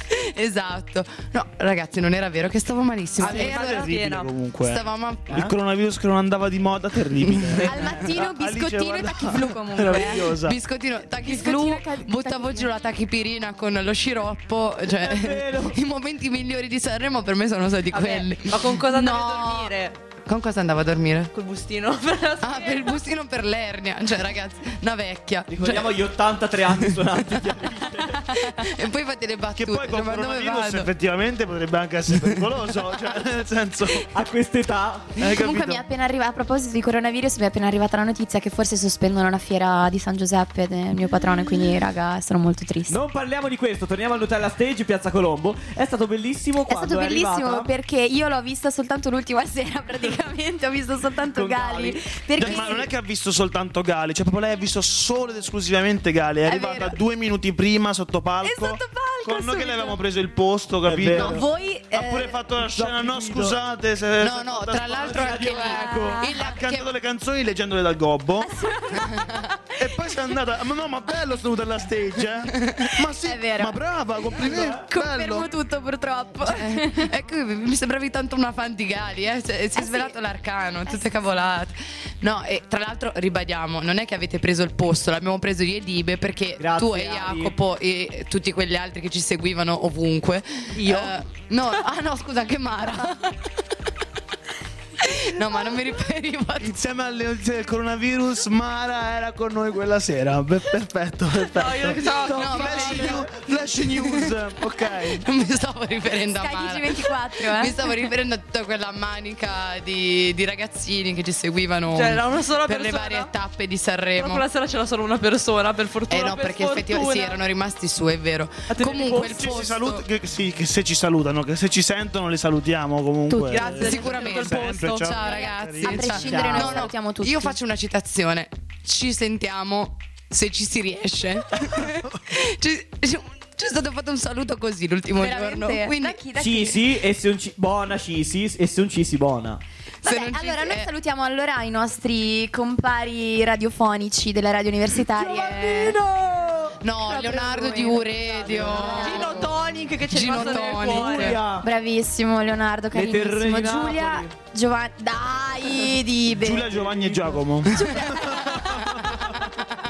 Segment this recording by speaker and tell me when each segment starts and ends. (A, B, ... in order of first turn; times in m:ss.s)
0:00.1-0:03.8 A
0:03.2-0:04.3 B
0:03.2-0:10.6 C
0:04.6-0:05.4 A
0:07.2-0:07.6 A
0:07.5-0:08.0 D
0:07.6-0:10.4 E
0:10.4-0:18.8 A
0:11.1-0:12.7 E
0:14.9-0:15.8 D
0:17.9-0:20.0 B
0:19.0-0:19.7 E
0:20.2-0:21.3 A
0:21.3-0:23.0 B
0:22.4-0:26.0 A
0:25.5-0:28.4 D
0:26.7-0:27.3 A
0:28.1-0:30.9 A
0:29.6-0:34.1 C
0:34.1-0:35.3 D
0:35.2-0:35.8 C
0:35.2-0:43.0 E
0:42.9-0:47.7 D
0:46.7-0:52.9 E
0:51.3-0:52.8 D
0:52.4-1:05.4 C
0:56.4-0:57.0 E
0:58.4-1:00.0 E
1:00.8-1:01.4 D
1:01.1-1:02.4 E
1:02.6-1:03.6 D
1:04.2-1:06.9 A
1:04.9-1:06.2 D
1:05.4-1:06.4 E
1:06.4-1:08.8 C
1:08.4-1:10.2 E
1:09.0-1:09.3 A
1:09.8-1:15.5 C
1:13.1-1:13.8 E
1:14.3-1:14.9 D
1:14.9-1:17.1 E
1:16.4-1:33.5 A
1:19.8-1:20.2 E
1:20.9-1:21.2 E
1:26.6-1:27.6 D
1:35.0-1:36.8 A
1:36.6-1:45.2 C
1:41.5-1:43.2 B
1:42.3-1:43.2 D
1:42.3-1:43.2 A
1:44.0-1:44.3 A
1:44.9-1:54.4 A
1:46.3-1:48.0 E
1:51.9-1:53.3 B
1:54.2-1:57.4 B
1:56.1-2:00.0 A
1:58.7-1:59.4 D
1:59.2-2:06.6 C
2:03.3-2:05.2 B
2:03.3-2:03.9 E
2:03.8-2:16.2 A
2:05.8-2:07.6 E
2:06.2-2:06.9 D
2:15.2-2:16.8 E
2:16.4-2:19.6 D
2:20.0-2:26.0 E
2:20.0-2:20.9 A
2:25.0-2:27.4 D
2:26.8-2:29.4 A
2:27.1-2:29.7 E
2:28.4-2:29.1 D
2:28.8-2:31.4 B
2:30.1-2:31.4 A
2:30.4-2:31.7 D
2:31.6-2:37.0 E
2:32.9-2:34.3 D
2:36.4-2:39.2 C
2:36.7-2:37.4 D
2:37.6-2:39.4 E
2:37.7-2:39.5 A